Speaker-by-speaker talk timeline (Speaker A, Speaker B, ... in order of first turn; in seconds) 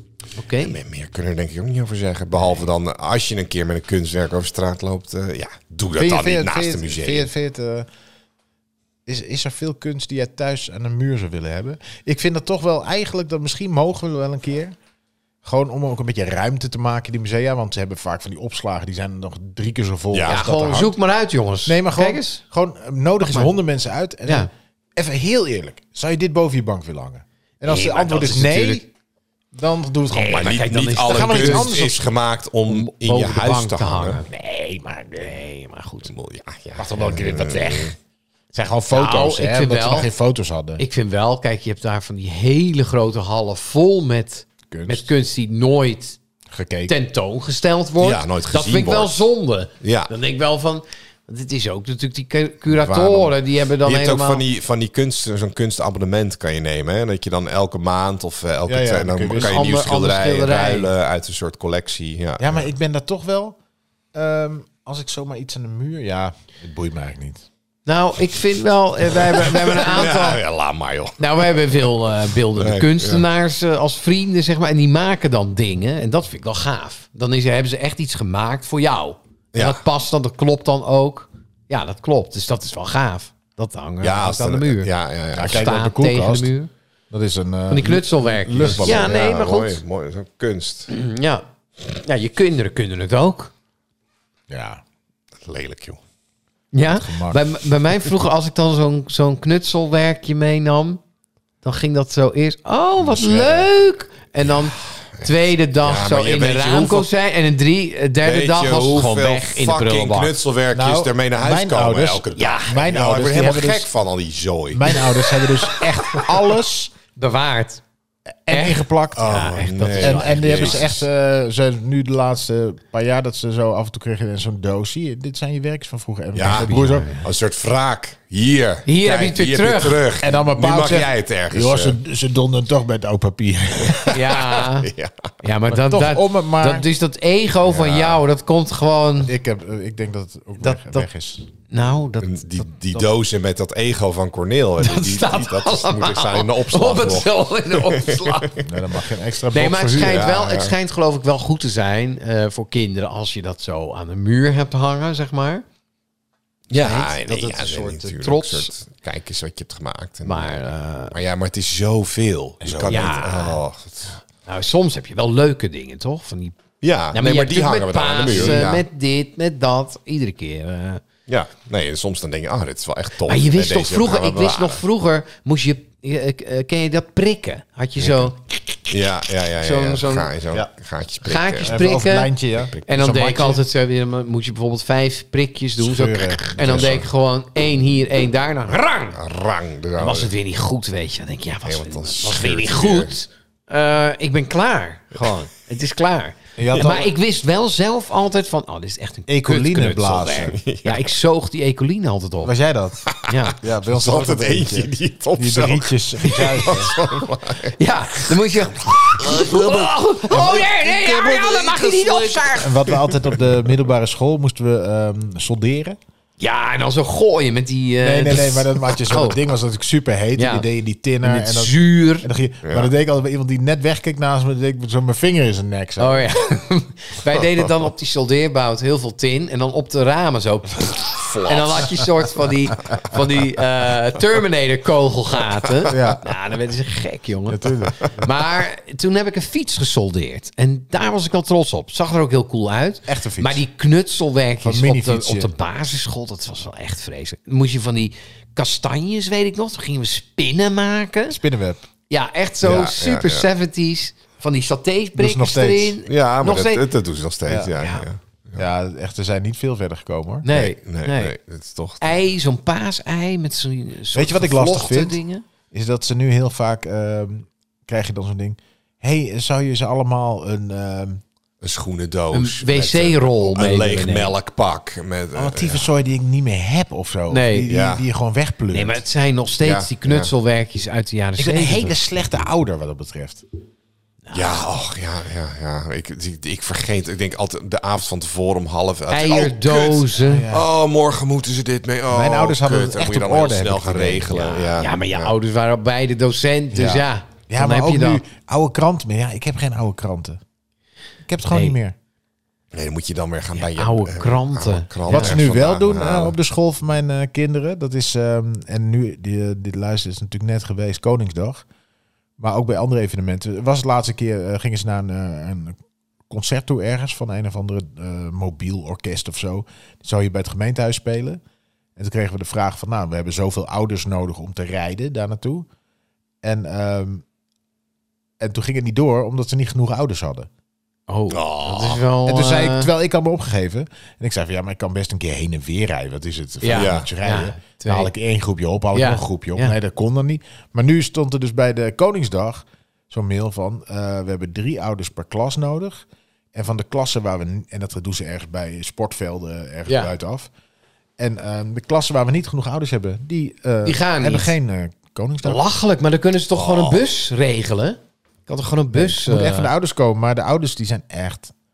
Speaker A: 0.4-0.8, 20.2-22.4, 27.6-28.8, 30.1-31.9, 32.7-36.1, 38.9-40.1, 40.8-46.2, 46.9-54.4, 59.4-60.9, 67.8-70.4, 71.2-86.7, 87.7-89.8, 90.9-93.5, 96.7-101.0, 101.6-110.3, 112.3-112.9, 115.6-116.3, 117.1-117.8, 118.5-120.8, 126.5-127.2, 128.8-130.0, 134.1-134.9, 135.4-139.3, 140.6-141.1, 141.7-143.0, 144.8-148.6, 149.5-155.6, 156.7-158.7, 160.2-161.1, 162.9-163.6, 164.4-166.6, 167.1-171.0, 173.2-178.9, 179.6-180.3, 181.2-182.3, 182.8-189.2, 190.0-202.5, 203.3-203.6, 207.8-212.9, 216.4-219.4, 220.3-220.7, 221.2-222.3, 226.0-251.4, 252.1-256.8, 257.7-258.1, 260.4-261.3, 262.0-265.4, 272.3-274.3, 277.3-277.7, 278.7-282.0, 284.2-284.6, 289.1-290.5, 294.7-298.2, 301.5-301.8, 303.6-305.4, 331.1-332.9, 336.6-338.1, 338.9-339.7, 353.8-354.5, 355.4-359.7
Speaker B: 0.6-7.3, 20.1-20.4, 30.1-34.2, 36.0-37.9, 48.0-49.2, 49.8-50.1, 53.8-62.6, 69.2-71.9, 72.5-73.2, 79.5-79.8, 84.0-85.7, 88.6-90.9, 95.4-96.0, 104.5-107.1, 108.2-115.0, 119.1-121.0, 126.3-132.0, 133.9-135.1, 137.7-138.2, 142.2-148.7, 150.0-150.8, 156.7-160.6, 161.1-164.2, 166.8-168.8, 171.3-174.8, 178.0-178.3, 178.9-181.8, 186.7-186.9, 189.1-190.3, 191.6-193.1, 200.4-201.1, 203.1-213.3, 222.6-222.9, 231.2-232.0, 252.6-253.5, 256.1-258.6, 260.5-262.1, 271.6-275.9, 277.7-278.0, 279.6-280.3, 284.3-295.3, 302.7-306.3, 331.3-332.1, 336.7-337.1, 356.5-357.1
Speaker C: 6.0-7.9, 9.1-14.8, 15.4-20.9, 21.7-28.9, 29.5-30.6, 31.1-32.1, 36.8-37.9, 38.5-40.8, 44.7-45.1, 46.5-46.9, 52.7-53.3, 58.6-59.7, 62.4-63.6, 64.1-67.4, 85.3-86.5, 87.1-89.2, 94.5-94.8, 96.9-97.4, 103.1-103.7, 110.7-113.9, 114.7-116.9, 118.5-119.4, 119.9-127.1, 130.2-134.4, 135.7-136.9, 139.2-141.4, 148.6-150.3, 162.6-163.3, 168.3-168.7, 181.6-183.6, 185.8-187.0, 196.6-197.1, 199.3-200.6, 202.4-203.1, 203.6-206.9, 212.5-216.0, 218.0-226.3, 235.9-236.2, 237.5-238.0, 243.1-243.6, 244.6-245.5, 251.3-251.8, 255.2-256.0, 258.6-260.5, 264.1-265.2, 265.7-271.2, 275.3-279.0, 281.4-283.4, 290.2-290.7, 292.1-294.6, 296.7-300.4, 301.2-301.9, 305.1-311.6, 312.4-315.8, 316.3-321.4, 321.9-325.7, 326.4-327.2, 328.4-330.5, 332.2-350.5, 351.2-355.6, 358.9-361.5